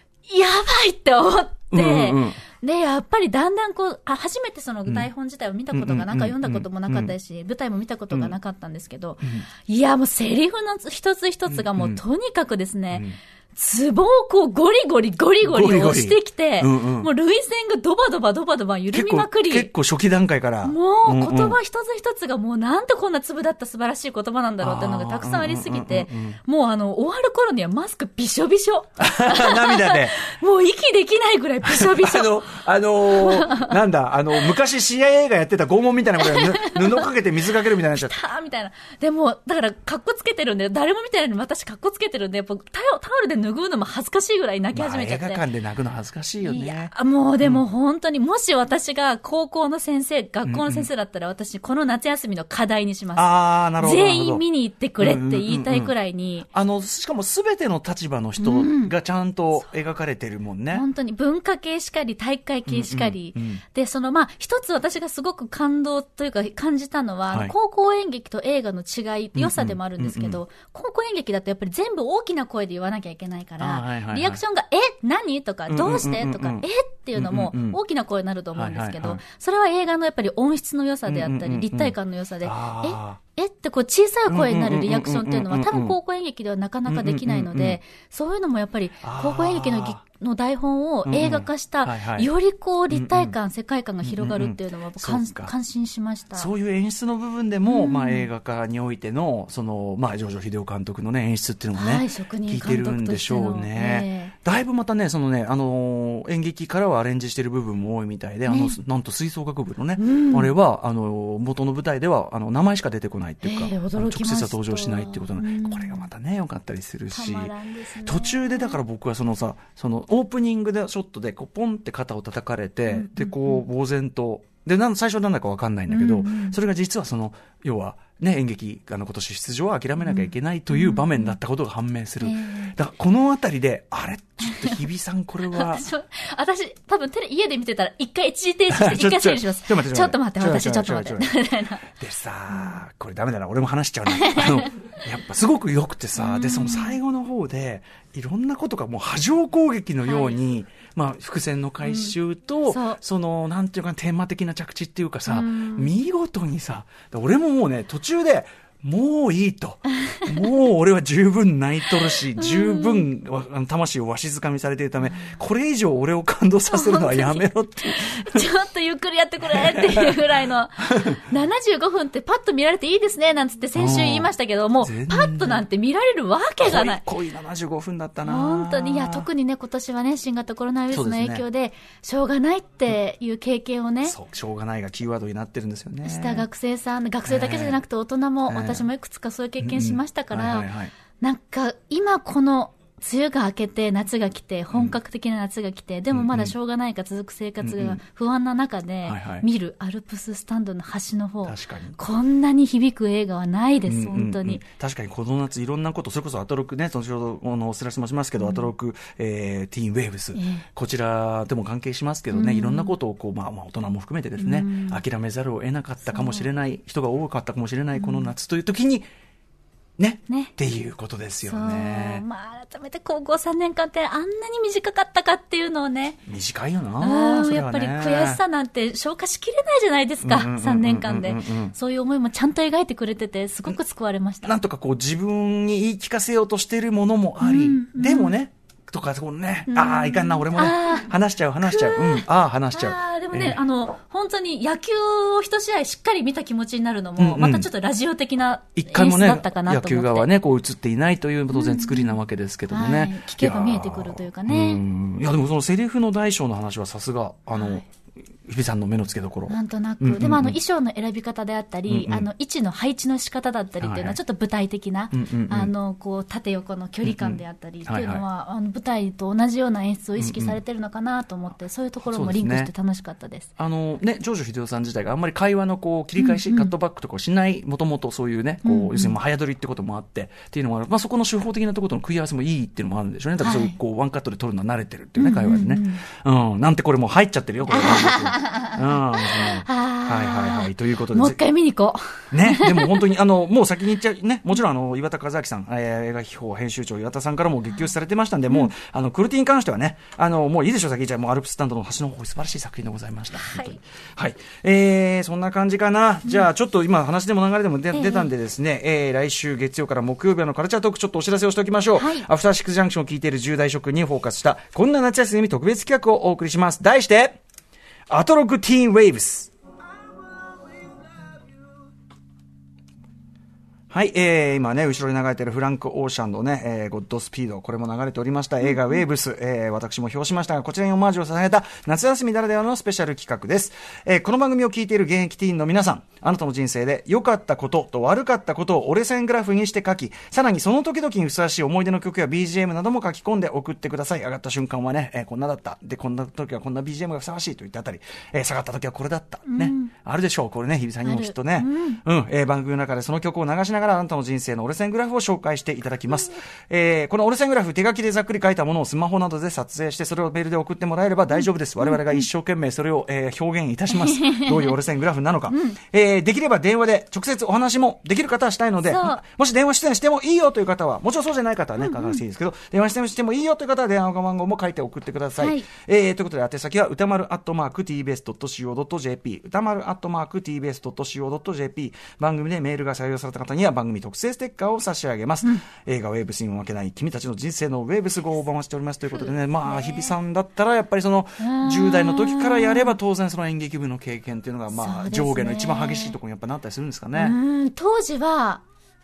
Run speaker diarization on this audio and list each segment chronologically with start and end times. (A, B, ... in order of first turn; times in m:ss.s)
0:00.3-0:19.7 A
0:01.7-0:02.4 B
0:05.7-0:07.1 B
0:09.2-0:09.5 B
0:11.5-0:12.0 B
0:12.9-0:13.2 B
0:15.4-0:17.1 B
0:18.9-0:21.6 B
0:20.6-0:32.5 A
0:24.6-0:26.4 B
0:29.0-0:30.2 B
0:31.6-0:38.2 B
0:33.0-0:33.7 A
0:36.2-0:37.1 A
0:37.8-0:45.4 A
0:44.7-0:47.6 B
0:46.4-0:56.5 A
0:50.4-0:50.9 B
0:53.2-0:54.4 B
0:55.0-0:55.9 B
0:56.5-1:00.8 B
0:58.4-0:58.9 A
1:00.7-1:36.5 A
1:02.7-1:03.6 B
1:09.3-1:10.4 B
1:13.6-1:14.4 B
1:15.7-1:17.8 B
1:18.5-1:19.2 B
1:21.1-1:23.2 B
1:24.3-1:26.0 B
1:26.9-1:27.8 B
1:29.0-1:30.0 B
1:31.0-1:32.3 B
1:32.9-1:33.3 B
1:34.0-1:35.5 B
1:36.4-1:57.5 B
1:37.6-1:38.3 A
1:41.8-1:44.3 A
1:48.5-1:48.8 A
1:50.0-1:50.5 A
1:53.4-1:56.1 A
1:57.1-1:58.8 A
1:58.0-2:15.8 B
2:02.9-2:03.6 A
2:05.9-2:06.6 A
2:10.0-2:11.4 A
2:12.2-2:12.7 A
2:14.4-2:14.8 A
2:15.5-2:21.8 A
2:18.7-2:21.3 B
2:21.9-2:48.4 B
2:22.5-2:22.8 A
2:24.1-2:24.7 A
2:26.2-2:27.0 A
2:30.0-2:30.4 A
2:31.8-2:32.1 A
2:32.7-2:33.0 A
2:35.3-2:35.9 A
2:40.1-2:40.5 A
2:42.4-2:43.1 A
2:46.7-2:57.0 A
2:49.4-2:50.2 B
2:50.9-2:51.2 B
2:53.8-2:55.6 B
2:56.6-2:59.2 B
2:58.2-3:04.2 A
3:00.9-3:01.4 B
3:04.0-3:06.5 B
3:06.0-3:24.6 A
3:07.2-3:07.8 B
3:08.5-3:08.9 B
3:09.6-3:10.9 B
3:14.7-3:15.0 B
3:16.1-3:16.5 B
3:17.6-3:18.0 B
3:19.0-3:19.4 B
3:21.4-3:22.0 B
3:23.9-3:39.0 B
3:28.4-3:28.7 A
3:30.3-3:30.6 A
3:32.3-3:32.9 A
3:34.4-3:35.0 A
3:36.0-3:36.5 A
3:37.9-3:38.3 A
3:40.0-3:42.2 B
3:41.4-3:46.2 A
3:46.3-3:48.4 B
3:47.0-3:54.6 A
3:50.2-3:51.7 B
3:54.4-4:03.6 B
3:57.4-3:58.3 A
3:59.7-4:01.1 A
4:01.6-4:10.3 A
4:07.2-4:07.7 B
4:08.8-4:17.8 B
4:11.5-4:12.2 A
4:12.7-4:14.8 A
4:17.5-4:17.8 A
4:18.5-4:20.6 B
4:19.5-4:33.5 A
4:21.9-4:22.3 B
4:23.8-4:24.2 B
4:25.1-4:25.7 B
4:27.0-4:28.2 B
4:30.2-4:30.6 B
4:32.1-4:32.7 B
4:33.6-4:51.4 B
4:36.2-4:36.7 A
4:38.6-4:39.2 A
4:43.4-4:43.8 A
4:45.2-4:46.0 A
4:47.7-4:53.1 A
4:52.3-5:17.4 B
5:03.3-5:03.8 A
5:07.9-5:08.3 A
5:11.9-5:12.3 A
5:18.1-5:19.5 B
5:23.9-6:37.4 B
5:49.4-5:49.9 A
5:51.0-5:52.0 A
6:01.4-6:02.2 A
6:03.9-6:04.7 A
6:05.5-6:05.8 A
6:08.8-6:09.2 A
6:11.8-6:12.2 A
6:15.4-6:15.6 A
6:29.6-6:30.1 A
6:31.4-6:32.9 A
6:34.7-6:36.1 A
6:37.1-6:38.6 A